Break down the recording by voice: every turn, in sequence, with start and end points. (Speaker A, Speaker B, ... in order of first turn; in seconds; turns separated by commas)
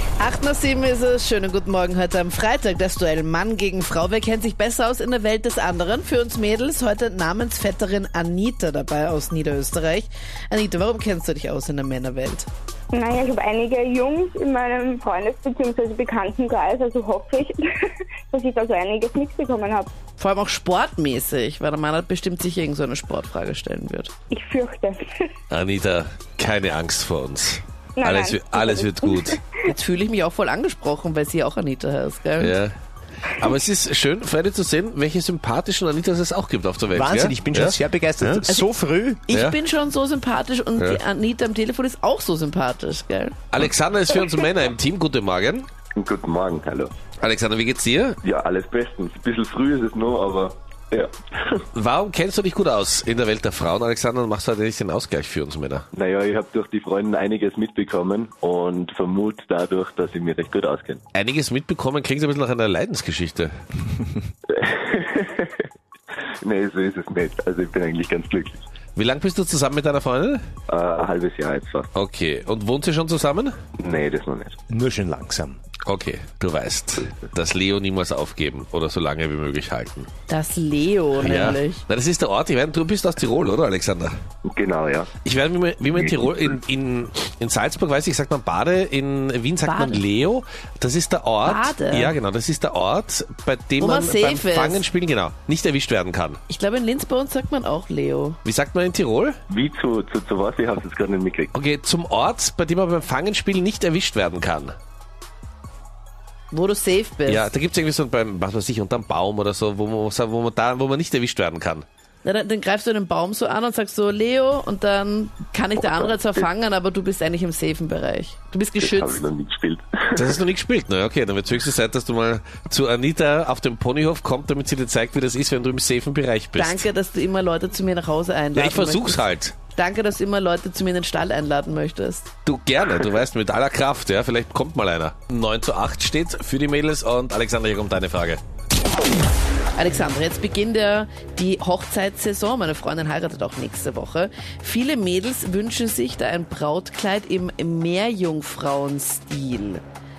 Speaker A: 0.2-12.5, Speaker B: 12.9-19.9, Speaker A: 20.2-24.1, Speaker B: 24.3-25.3, Speaker C: 25.5-29.4, Speaker B: 28.0-29.4, Speaker A: 29.6-32.5, Speaker C: 32.4-38.4, Speaker D: 36.9-39.2, Speaker A: 39.3-43.4, Speaker C: 39.3-39.6, Speaker C: 43.5-45.7, Speaker E: 45.9-46.9, Speaker C: 47.2-48.2, Speaker E: 48.2-51.6, Speaker C: 51.7-55.9, Speaker E: 55.9-61.0, Speaker C: 61.1-63.5, Speaker E: 64.5-65.6, Speaker E: 66.4-68.6, Speaker C: 69.0-70.4, Speaker E: 70.7-71.9, Speaker C: 71.9-73.5, Speaker E: 73.8-74.6, Speaker D: 74.7-75.6, Speaker C: 75.8-80.1, Speaker A: 80.3-81.8, Speaker C: 81.2-84.1, Speaker E: 84.5-85.1, Speaker C: 85.2-96.4, Speaker A: 89.6-90.0, Speaker A: 91.4-92.1, Speaker A: 93.8-94.9, Speaker A: 96.5-98.4, Speaker C: 98.4-99.4, Speaker E: 99.5-101.5, Speaker C: 101.5-104.7, Speaker A: 106.5-107.5, Speaker C: 107.3-111.8, Speaker A: 112.2-119.2, Speaker E: 115.8-116.2, Speaker E: 118.8-120.4, Speaker C: 120.2-126.8, Speaker A: 126.5-129.2, Speaker C: 128.5-129.5, Speaker A: 129.7-132.3, Speaker C: 132.4-138.4, Speaker A: 139.8-149.8